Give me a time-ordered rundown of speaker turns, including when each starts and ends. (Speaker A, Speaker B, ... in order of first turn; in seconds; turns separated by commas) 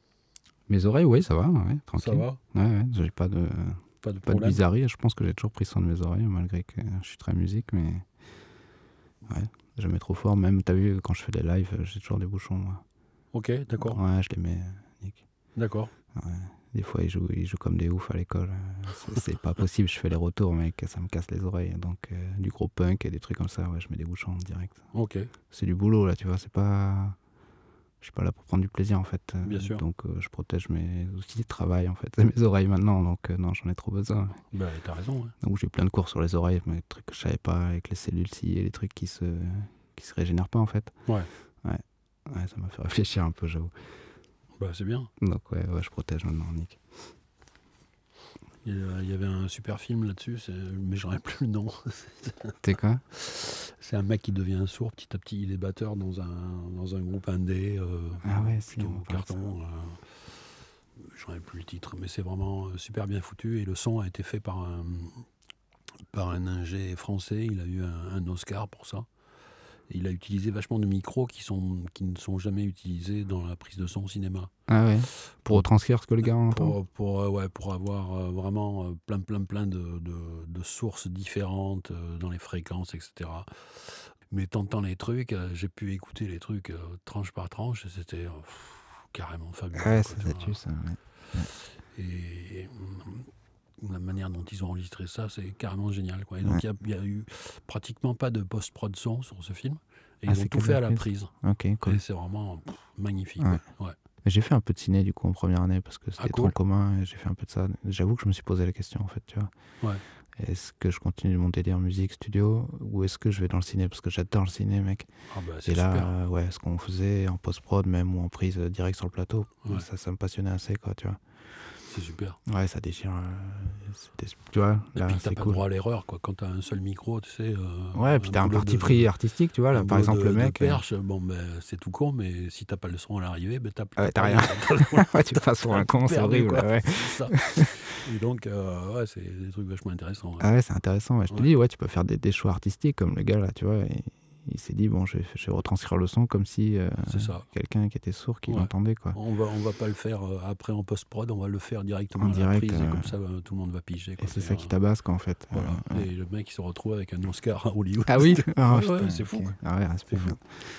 Speaker A: 0.7-8.1, Speaker B: 1.9-2.4, Speaker B: 4.0-4.6, Speaker A: 9.3-12.8, Speaker B: 13.3-14.0, Speaker A: 13.8-15.2, Speaker B: 15.6-15.9, Speaker A: 16.1-24.8, Speaker B: 24.9-25.3, Speaker A: 25.5-27.2, Speaker A: 28.0-34.4, Speaker B: 29.4-29.8, Speaker B: 34.5-35.3, Speaker A: 35.4-41.0, Speaker A: 41.6-43.7, Speaker B: 44.6-45.1, Speaker A: 45.2-46.8, Speaker B: 48.6-60.3, Speaker A: 52.6-53.0, Speaker A: 58.2-59.5, Speaker B: 61.0-65.3, Speaker B: 66.1-69.1, Speaker B: 69.9-74.5, Speaker A: 74.7-76.8, Speaker B: 75.3-75.6, Speaker B: 76.2-90.6, Speaker A: 89.8-91.5, Speaker B: 91.4-101.3, Speaker A: 100.3-102.0, Speaker B: 101.8-104.0, Speaker A: 104.2-109.5, Speaker B: 106.2-106.5, Speaker A: 110.4-115.1, Speaker B: 115.3-116.2, Speaker A: 115.6-121.2, Speaker B: 121.9-122.4, Speaker A: 122.5-125.6, Speaker B: 125.0-129.1, Speaker A: 127.9-130.8, Speaker B: 129.7-140.5, Speaker A: 134.0-137.7, Speaker A: 140.4-149.2, Speaker B: 147.1-147.5, Speaker B: 148.5-154.7, Speaker A: 152.2-153.1, Speaker A: 154.2-156.1, Speaker B: 155.5-159.6, Speaker A: 158.1-160.6, Speaker B: 160.1-160.4